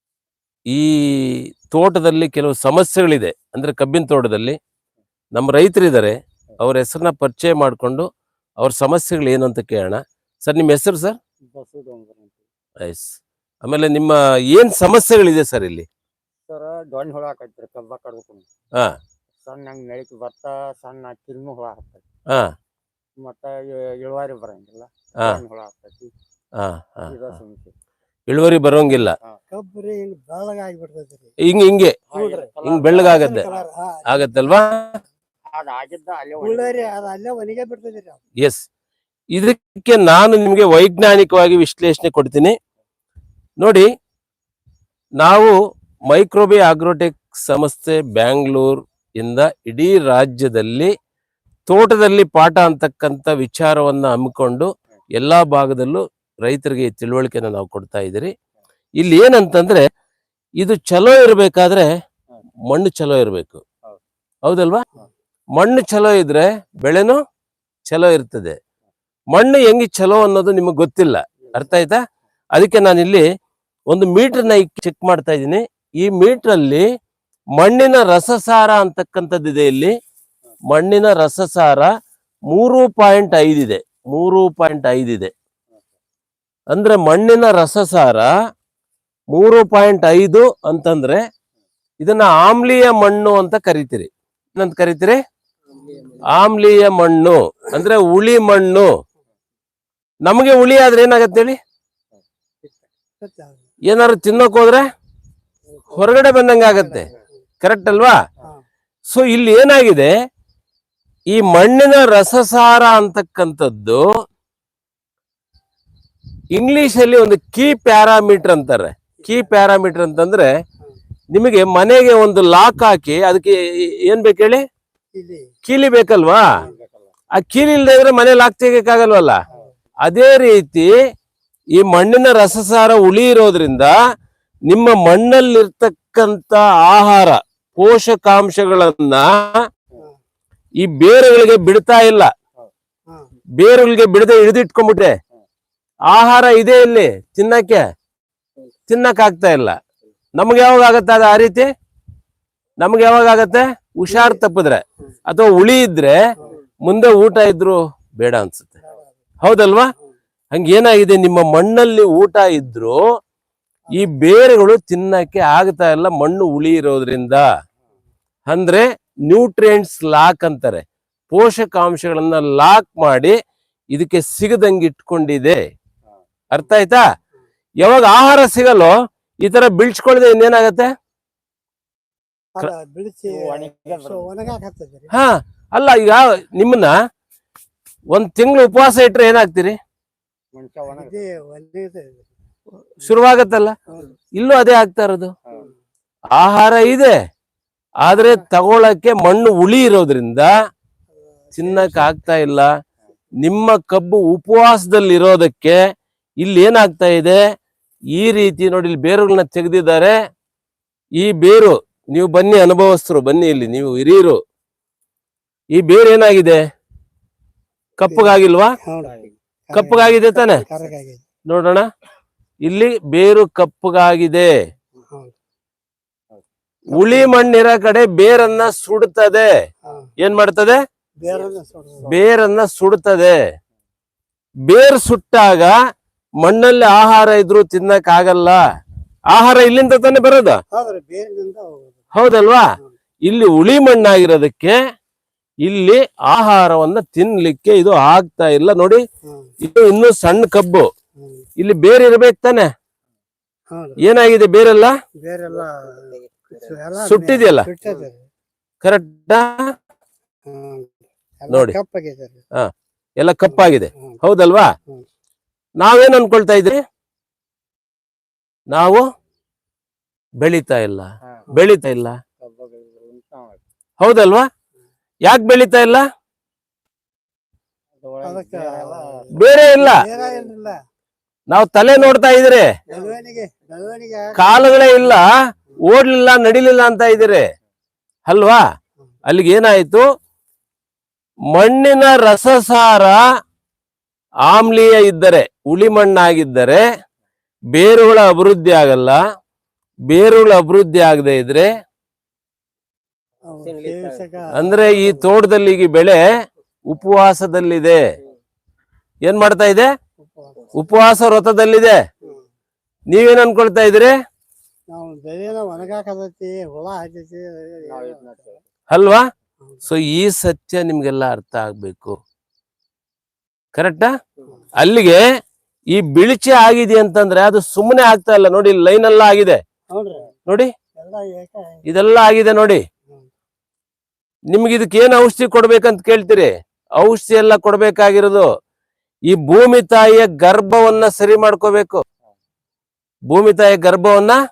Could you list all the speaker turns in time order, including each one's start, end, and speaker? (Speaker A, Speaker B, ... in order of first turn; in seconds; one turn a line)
Speaker A: 0.7-4.6
Speaker A: 5.3-8.1
Speaker A: 8.6-11.2
Speaker B: 11.5-12.3
Speaker A: 12.8-15.9
Speaker B: 16.5-18.5
Speaker B: 19.4-22.0
Speaker B: 23.2-26.1
Speaker A: 26.6-27.1
Speaker B: 27.1-27.7
Speaker A: 28.3-29.1
Speaker C: 29.5-31.3
Speaker A: 31.5-32.0
Speaker B: 32.1-33.6
Speaker C: 32.2-32.5
Speaker A: 32.6-33.5
Speaker C: 33.0-34.2
Speaker A: 34.1-35.0
Speaker B: 35.5-37.0
Speaker C: 36.4-38.2
Speaker A: 39.3-42.6
Speaker A: 43.6-43.9
Speaker A: 45.2-45.5
Speaker A: 46.1-50.9
Speaker A: 51.7-58.3
Speaker A: 59.0-59.9
Speaker A: 60.6-61.9
Speaker A: 62.7-63.6
Speaker A: 64.5-64.9
Speaker A: 65.6-67.2
Speaker A: 67.9-68.6
Speaker A: 69.3-72.0
Speaker A: 72.5-73.3
Speaker A: 73.9-76.8
Speaker A: 77.6-79.9
Speaker A: 80.7-81.9
Speaker A: 82.5-85.3
Speaker A: 86.7-88.3
Speaker A: 89.3-91.2
Speaker A: 92.0-95.2
Speaker C: 95.9-96.2
Speaker A: 96.2-98.9
Speaker A: 100.2-101.6
Speaker C: 103.2-103.7
Speaker A: 103.9-104.9
Speaker A: 105.9-107.1
Speaker A: 107.6-108.2
Speaker A: 109.1-110.1
Speaker A: 111.3-114.0
Speaker A: 116.5-120.5
Speaker C: 119.2-119.6
Speaker A: 121.3-124.6
Speaker C: 125.2-125.5
Speaker A: 125.7-126.5
Speaker B: 126.6-127.1
Speaker A: 127.4-129.4
Speaker A: 130.1-130.9
Speaker A: 131.8-133.9
Speaker A: 134.7-139.6
Speaker A: 140.8-142.3
Speaker A: 143.6-145.2
Speaker A: 146.1-147.8
Speaker A: 148.9-149.8
Speaker A: 150.4-151.7
Speaker A: 152.8-156.2
Speaker A: 156.8-158.8
Speaker C: 158.8-159.1
Speaker A: 159.4-159.9
Speaker A: 160.5-163.0
Speaker A: 163.9-167.4
Speaker A: 168.5-173.4
Speaker A: 173.9-175.6
Speaker A: 176.5-177.0
Speaker A: 177.8-180.9
Speaker C: 182.6-185.1
Speaker B: 183.3-184.4
Speaker A: 185.1-186.9
Speaker A: 188.1-189.8
Speaker B: 190.6-191.2
Speaker C: 190.9-192.3
Speaker A: 193.0-193.8
Speaker A: 194.3-195.3
Speaker A: 196.3-197.2
Speaker A: 198.0-200.5
Speaker C: 201.5-202.2
Speaker A: 201.6-202.7
Speaker A: 203.4-205.8
Speaker A: 206.4-207.4
Speaker A: 208.2-210.2
Speaker A: 211.2-214.4
Speaker A: 215.7-216.6
Speaker A: 218.0-218.7
Speaker C: 218.1-219.2
Speaker C: 219.7-221.2
Speaker A: 219.7-220.6
Speaker A: 221.5-221.9
Speaker A: 222.6-224.5
Speaker C: 225.0-225.3
Speaker A: 226.9-229.5
Speaker C: 226.9-227.3
Speaker C: 229.8-230.1
Speaker A: 230.2-230.8
Speaker C: 231.2-232.2
Speaker A: 232.0-233.4
Speaker A: 234.7-235.8
Speaker A: 236.4-238.6
Speaker A: 239.3-240.6
Speaker C: 240.7-242.0
Speaker A: 242.1-242.7
Speaker A: 243.2-244.8
Speaker A: 245.6-249.0
Speaker C: 249.2-249.5
Speaker A: 249.6-250.9
Speaker C: 251.2-251.4
Speaker A: 251.6-252.7
Speaker C: 253.7-254.0
Speaker A: 254.0-254.9
Speaker C: 255.2-258.2
Speaker A: 257.0-257.7
Speaker A: 258.8-259.6
Speaker C: 260.5-262.4
Speaker A: 261.5-261.8
Speaker A: 263.2-264.7
Speaker C: 263.5-264.2
Speaker A: 265.8-266.8
Speaker A: 268.7-269.0
Speaker A: 270.4-272.2
Speaker B: 272.4-273.6
Speaker A: 274.0-274.5
Speaker A: 275.3-276.1
Speaker B: 278.0-279.4
Speaker C: 278.2-280.8
Speaker A: 279.4-280.0
Speaker B: 280.1-280.5
Speaker A: 281.5-282.7
Speaker B: 282.9-283.1
Speaker C: 282.9-284.7
Speaker A: 284.4-285.3
Speaker A: 285.9-287.5
Speaker A: 288.3-288.6
Speaker A: 289.3-290.1
Speaker A: 291.5-293.2
Speaker A: 294.5-296.9
Speaker A: 297.7-299.2
Speaker A: 300.1-301.7
Speaker C: 303.5-305.3
Speaker A: 304.5-306.2
Speaker A: 306.9-308.0
Speaker A: 309.2-309.9
Speaker C: 310.2-311.0
Speaker A: 310.8-312.0
Speaker A: 313.1-314.1
Speaker C: 314.9-318.2
Speaker B: 317.9-318.6
Speaker A: 318.9-319.2
Speaker A: 319.8-322.2
Speaker A: 323.8-324.1
Speaker A: 324.8-325.2
Speaker A: 325.9-329.6
Speaker C: 329.9-330.3
Speaker C: 331.0-331.8
Speaker A: 331.9-332.8
Speaker A: 334.5-338.5
Speaker A: 339.3-342.0
Speaker A: 343.3-344.4